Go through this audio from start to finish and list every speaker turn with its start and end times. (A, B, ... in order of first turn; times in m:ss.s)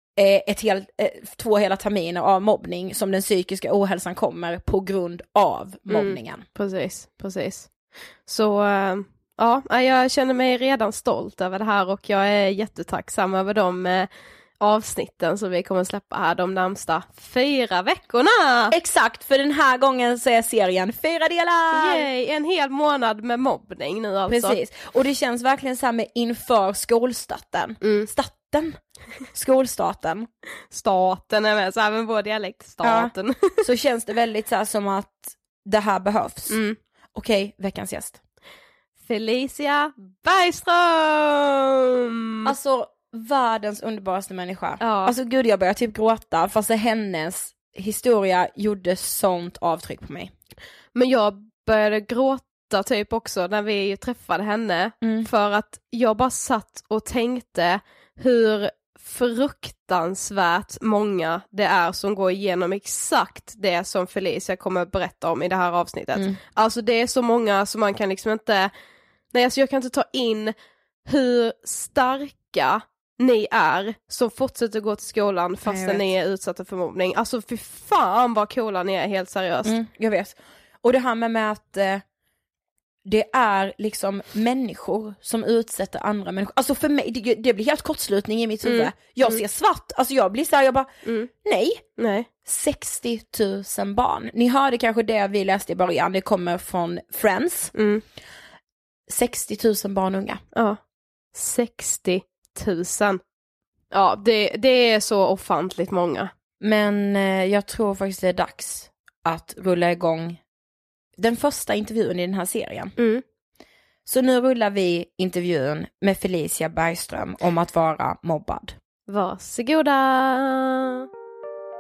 0:00.2-0:06.4 A
0:05.9-0:18.7 B
0:18.7-0:22.1 A
0:21.7-0:24.6 B
0:24.3-0:30.3 A
0:27.8-0:28.1 B
0:30.7-0:33.6 B
0:32.8-0:36.6 A
0:36.5-0:36.8 B
0:37.1-0:38.2 A
0:39.0-0:42.6 B
0:42.5-0:50.3 A
0:44.8-0:45.2 B
0:51.0-1:08.7 B
0:55.0-0:55.3 A
1:09.3-1:19.8 B
1:15.7-1:16.1 A
1:19.7-1:22.0 A
1:23.1-1:30.9 A
1:28.6-1:29.4 B
1:31.4-1:31.8 A
1:32.0-1:32.3 B
1:32.4-1:37.7 A
1:37.7-1:38.0 B
1:39.1-1:40.4 A
1:40.5-1:40.8 B
1:41.3-1:43.2 B
1:43.9-1:46.3 B
1:46.6-1:50.4 A
1:51.2-1:53.0 A
1:53.0-1:53.2 B
1:54.1-1:58.8 A
1:59.1-2:01.1 B